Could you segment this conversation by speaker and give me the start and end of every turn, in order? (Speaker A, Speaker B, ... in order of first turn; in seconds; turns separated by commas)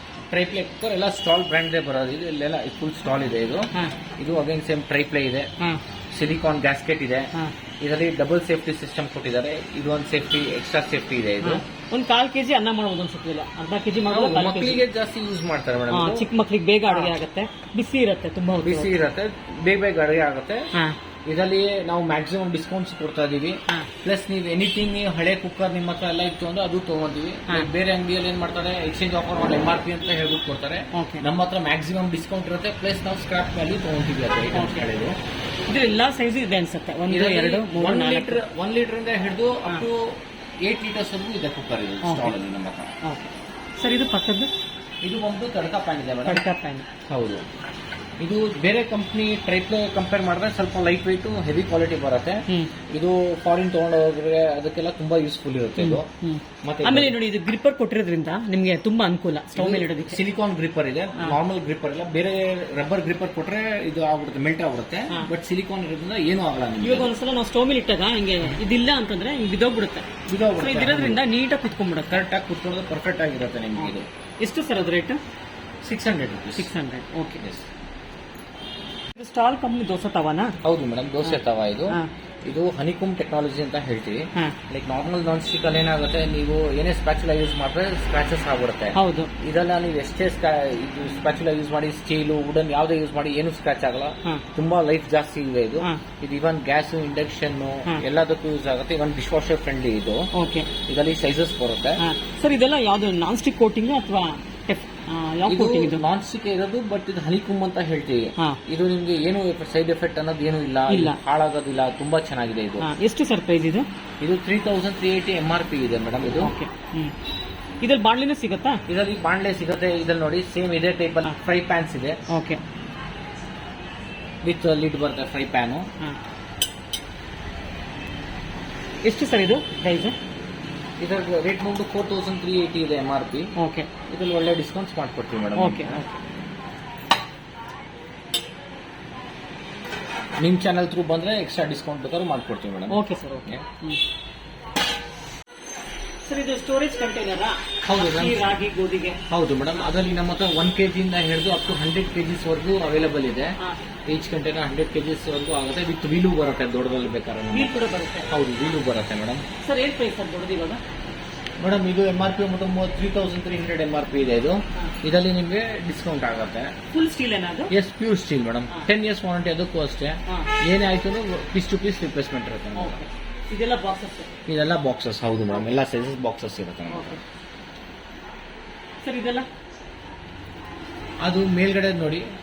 Speaker A: 0.3-5.5, Speaker A: 6.1-11.6, Speaker B: 11.4-14.8, Speaker A: 14.1-16.3, Speaker B: 15.9-18.9, Speaker A: 16.9-17.1, Speaker A: 18.6-20.7, Speaker A: 21.2-35.2, Speaker B: 30.9-31.2, Speaker B: 34.5-34.9, Speaker B: 35.7-38.4, Speaker A: 37.1-42.9, Speaker B: 42.0-42.3, Speaker B: 43.0-44.5, Speaker A: 45.0-46.4, Speaker B: 46.2-46.9, Speaker A: 47.1-47.4, Speaker A: 48.2-56.1, Speaker B: 55.8-60.2, Speaker A: 56.6-57.2, Speaker A: 59.5-67.1, Speaker B: 66.8-72.2, Speaker A: 70.2-71.2, Speaker A: 72.1-74.1, Speaker B: 73.8-75.2, Speaker A: 75.8-76.7, Speaker B: 76.5-77.4, Speaker A: 77.4-77.7, Speaker B: 79.2-80.5, Speaker A: 80.6-100.3, Speaker B: 88.9-89.3, Speaker B: 100.3-100.7, Speaker A: 100.9-102.0, Speaker B: 102.0-106.0, Speaker A: 105.5-112.9, Speaker B: 110.9-111.2, Speaker B: 112.8-113.9, Speaker A: 114.2-116.5, Speaker B: 116.4-117.1, Speaker B: 117.8-118.8, Speaker A: 118.9-122.2, Speaker B: 122.3-122.6, Speaker A: 124.4-125.9, Speaker B: 129.0-130.2, Speaker A: 131.0-133.5, Speaker B: 133.6-133.9, Speaker A: 134.1-136.0, Speaker B: 135.6-136.1, Speaker A: 140.4-143.6, Speaker B: 142.9-144.0, Speaker B: 146.2-149.2, Speaker A: 147.8-148.6, Speaker A: 149.3-157.7, Speaker B: 157.5-158.3, Speaker A: 158.3-159.4, Speaker B: 159.6-160.8, Speaker A: 161.6-166.7, Speaker B: 166.9-167.7, Speaker A: 167.7-173.0, Speaker B: 172.8-174.3, Speaker A: 174.5-177.2, Speaker B: 176.9-177.2, Speaker B: 179.0-179.5, Speaker A: 181.2-182.3